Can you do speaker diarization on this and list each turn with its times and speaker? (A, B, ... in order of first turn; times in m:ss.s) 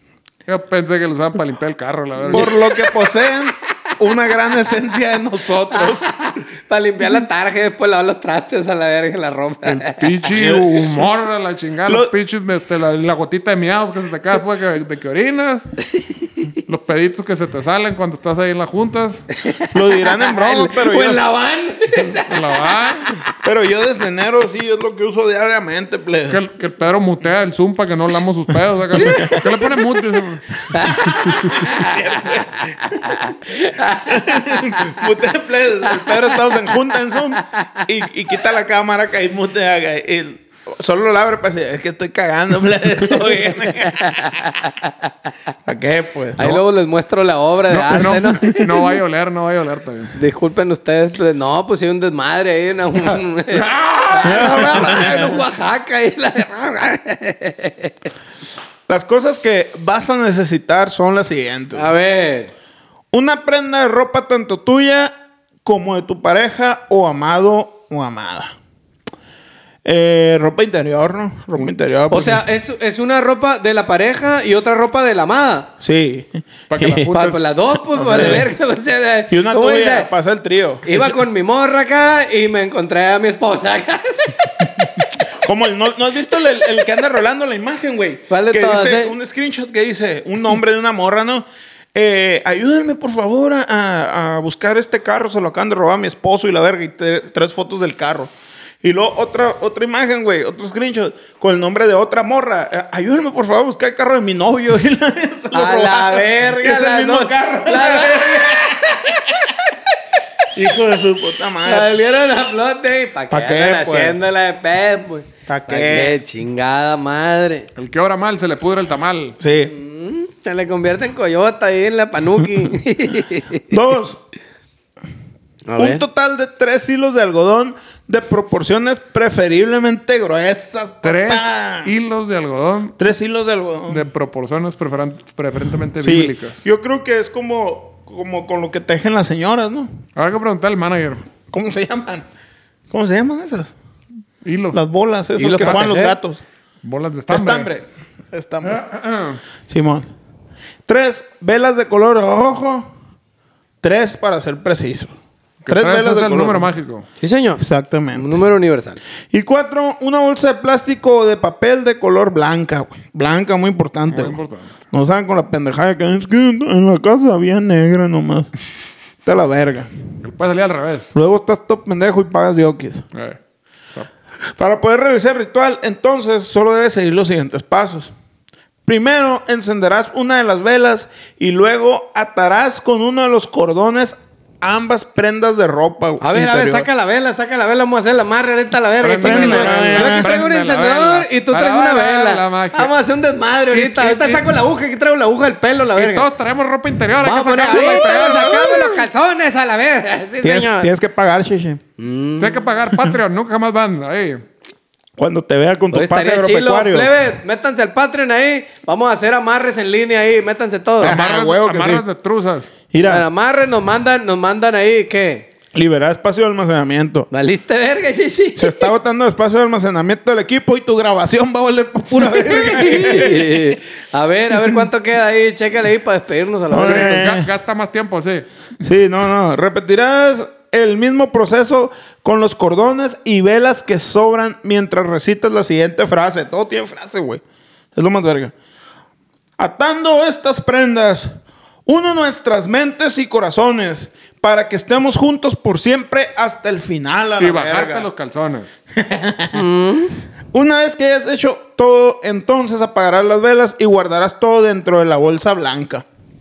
0:00.5-0:02.5 A
0:02.3-0:03.0 B
0:02.3-0:06.1 C
0:05.7-0:10.2 B
0:09.6-0:15.7 A
0:10.3-0:11.0 C
0:11.9-0:12.1 C
0:16.6-0:19.3 A
0:19.4-0:23.2 B
0:19.7-0:21.2 C
0:22.0-0:23.1 A
0:23.4-0:26.4 C
0:26.3-0:30.6 A
0:29.0-0:29.6 C
0:30.7-0:32.4 B
0:30.7-0:33.2 C
0:31.2-0:31.6 A
0:33.0-0:34.3 B
0:33.8-0:44.5 C
0:37.5-0:37.8 B
0:44.0-0:44.9 B
0:45.6-0:46.4 C
0:46.4-0:48.7 B
0:47.7-0:50.1 A
0:50.2-0:57.9 B
0:53.5-0:55.0 A
0:54.2-0:55.3 C
0:58.9-1:01.9 C
1:01.7-1:02.5 B
1:03.1-1:08.5 C
1:09.8-1:12.4 C
1:12.1-1:15.7 B
1:15.8-1:17.3 C
1:16.7-1:17.4 A
1:17.0-1:20.1 B
1:17.9-1:18.4 A
1:18.1-1:18.5 C
1:19.3-1:21.2 C
1:20.8-1:24.9 B
1:25.4-1:38.3 C
1:28.3-1:29.1 B
1:38.8-1:49.6 C
1:45.5-1:48.8 B
1:50.5-1:51.9 C
1:51.6-1:57.7 B
1:53.3-1:54.2 C
1:55.5-1:56.1 C
1:57.8-1:59.4 A
1:59.4-1:59.7 C
1:59.6-2:03.7 B
2:03.7-2:04.2 C
2:05.7-2:06.0 B
2:05.8-2:11.9 C
2:11.0-2:13.0 A
2:13.0-2:14.0 C
2:13.9-2:16.6 A
2:16.0-2:19.9 C
2:20.2-2:21.2 A
2:21.5-2:22.2 C
2:22.9-2:23.7 C
2:24.4-2:24.8 A
2:24.7-2:26.4 C
2:25.4-2:26.2 B
2:26.8-2:27.7 A
2:27.3-2:28.8 C
2:28.6-2:29.4 A
2:29.7-2:30.1 C
2:30.9-2:32.9 C
2:33.8-2:35.1 C
2:35.6-2:37.0 A
2:35.7-2:36.7 C
2:37.2-2:39.0 B
2:37.6-2:38.3 C
2:39.3-2:44.4 C
2:44.1-2:44.8 A
2:44.9-2:48.5 C
2:49.2-2:49.9 C
2:50.2-2:51.1 A
2:51.1-2:53.0 C
2:53.1-2:53.4 A
2:54.6-2:58.1 C
2:58.8-3:06.9 C
3:06.2-3:16.3 B
3:09.0-3:12.9 A
3:09.2-3:10.3 C
3:13.7-3:14.4 A
3:16.0-3:18.7 A
3:17.2-3:20.9 B
3:17.7-3:19.0 C
3:20.4-3:21.8 C
3:22.0-3:22.6 B
3:22.4-3:24.4 A
3:25.2-3:27.1 C
3:25.9-3:31.2 B
3:31.0-3:32.0 C
3:31.0-3:32.7 A
3:32.9-3:33.2 C
3:33.0-3:35.5 B
3:35.7-3:37.3 C
3:37.3-3:38.9 B
3:38.6-3:43.8 C
3:42.3-3:47.3 B
3:46.7-3:47.5 C
3:46.8-3:48.5 A
3:48.8-3:57.4 C
3:57.9-3:58.5 C
3:59.6-4:01.3 C
4:01.8-4:08.1 C
4:07.4-4:08.7 A
4:08.9-4:09.6 C
4:09.5-4:10.2 B
4:10.5-4:16.0 C